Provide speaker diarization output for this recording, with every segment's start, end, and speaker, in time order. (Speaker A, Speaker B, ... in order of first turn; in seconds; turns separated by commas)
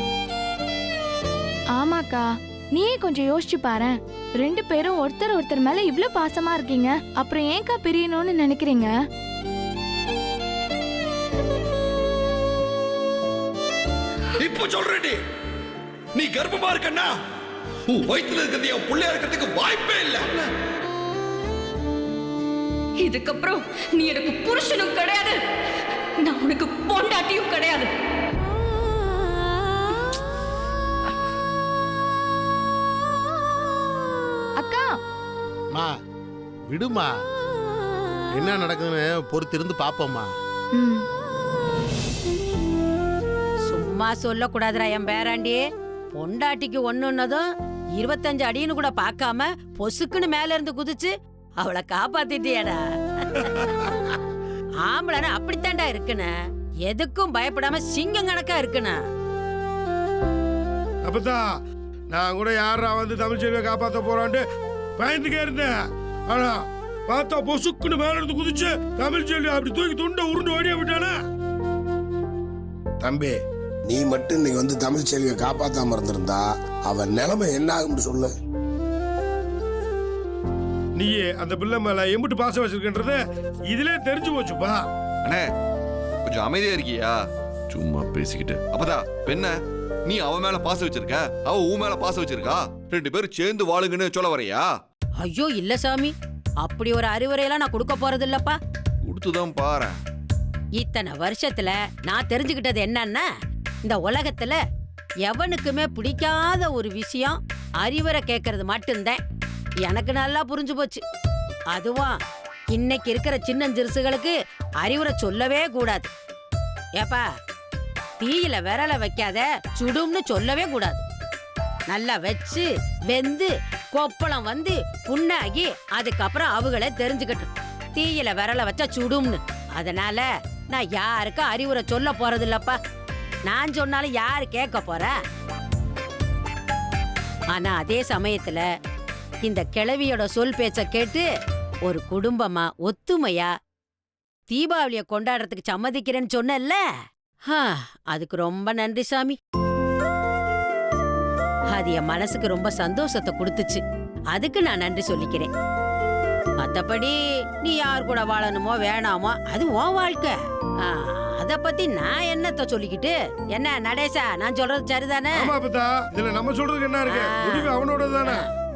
Speaker A: 1.8-8.9, Speaker B: 14.4-15.2, Speaker B: 16.1-17.2, Speaker B: 17.9-20.5, Speaker C: 23.0-25.4, Speaker C: 26.2-27.9, Speaker A: 34.6-34.9, Speaker D: 36.7-37.1, Speaker D: 38.4-40.3, Speaker A: 40.7-41.0, Speaker E: 43.7-45.6, Speaker E: 46.1-54.0, Speaker E: 54.8-56.3, Speaker E: 56.9-59.0, Speaker F: 61.0-61.4, Speaker F: 62.1-64.4, Speaker F: 65.0-65.7, Speaker F: 66.3-71.2, Speaker G: 73.0-73.3, Speaker G: 73.9-78.3, Speaker F: 81.0-84.8, Speaker B: 85.2-85.5, Speaker B: 86.3-87.2, Speaker B: 87.7-89.5, Speaker B: 90.1-94.7, Speaker E: 95.2-98.6, Speaker B: 99.0-100.0, Speaker E: 100.8-103.3, Speaker E: 103.8-104.6, Speaker E: 105.2-109.2, Speaker E: 109.8-111.0, Speaker E: 111.7-112.2, Speaker E: 112.7-116.1, Speaker E: 117.0-117.2, Speaker E: 118.2-121.0, Speaker E: 121.9-132.8, Speaker E: 133.5-135.2, Speaker E: 137.5-138.7, Speaker E: 139.4-141.3, Speaker E: 141.8-143.5, Speaker E: 144.5-146.8, Speaker E: 147.5-149.4, Speaker E: 151.7-155.5, Speaker E: 156.6-165.5, Speaker F: 165.3-168.5, Speaker E: 167.1-168.5